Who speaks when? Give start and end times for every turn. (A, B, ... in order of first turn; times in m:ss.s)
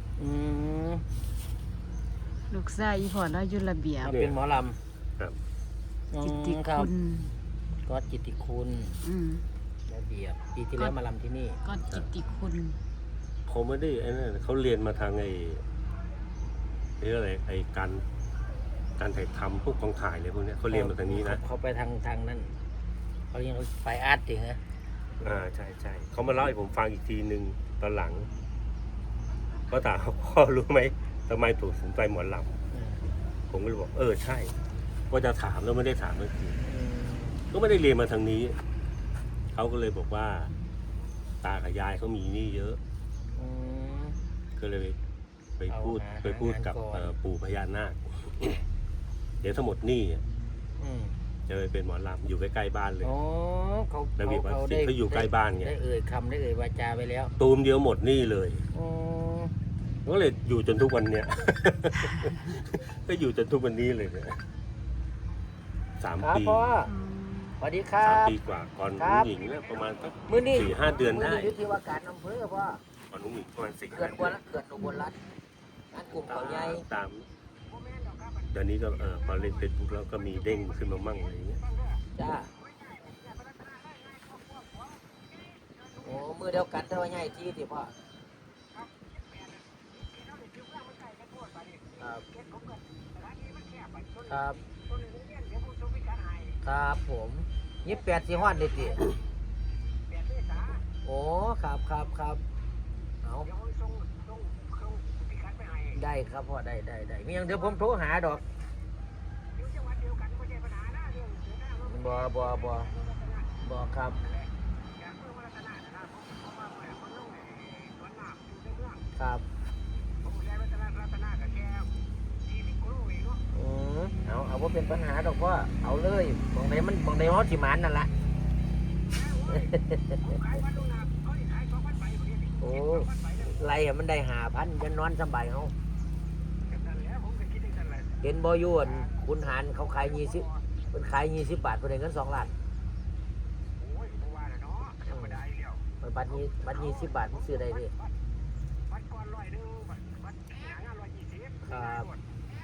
0:00.2-0:01.0 A
0:02.5-0:04.1 B
0:04.0-0:04.8 A
0:04.0-0:04.4 C
0:06.1-0:06.9 A
0:06.2-0:07.3 B
0:07.9-0:09.0 A
0:09.0-0:09.4 B
0:09.9-0:11.6 A
0:11.6-0:12.8 B
0:13.5-0:15.6 C
0:17.0-0:18.0 C
0:19.0-0:21.4 C
0:20.7-0:22.5 A
0:23.3-0:24.6 A
0:25.2-0:28.3 C
0:29.7-0:32.6 C
0:32.7-0:33.0 A
0:33.5-0:34.5 C
0:35.1-0:36.6 C
0:36.6-0:37.4 A
0:37.5-0:38.6 C
0:39.5-0:40.5 C
0:41.4-0:42.8 C
0:43.4-0:44.2 A
0:44.6-0:45.0 C
0:45.6-0:48.6 C
0:45.7-0:47.1 A
0:49.4-0:50.2 C
0:50.8-0:51.2 A
0:51.5-0:53.1 C
0:53.0-0:57.3 A
0:54.2-0:55.8 C
0:57.4-0:58.7 C
0:58.7-0:59.5 A
1:00.0-1:04.4 C
1:06.0-1:06.7 C
1:06.2-1:06.9 A
1:06.9-1:07.6 B
1:07.6-1:08.4 A
1:08.0-1:11.6 C
1:09.0-1:09.3 A
1:10.3-1:12.8 A
1:13.1-1:14.4 C
1:13.9-1:15.2 A
1:15.9-1:16.8 A
1:16.1-1:17.3 C
1:18.5-1:21.6 C
1:22.2-1:22.5 A
1:26.0-1:27.9 A
1:32.0-1:32.2 A
1:34.2-1:34.6 A
1:36.6-1:39.1 A
1:41.0-1:42.4 A
1:43.2-1:43.5 A
1:45.9-1:48.4 A
1:51.8-1:53.0 A
1:53.6-1:54.2 A
1:59.2-1:59.4 A
2:03.5-2:08.1 A
2:09.5-2:10.6 A
2:12.6-2:15.7 A
2:18.2-2:22.5 A
2:25.0-2:25.5 A
2:26.0-2:27.9 A
2:31.6-2:32.1 A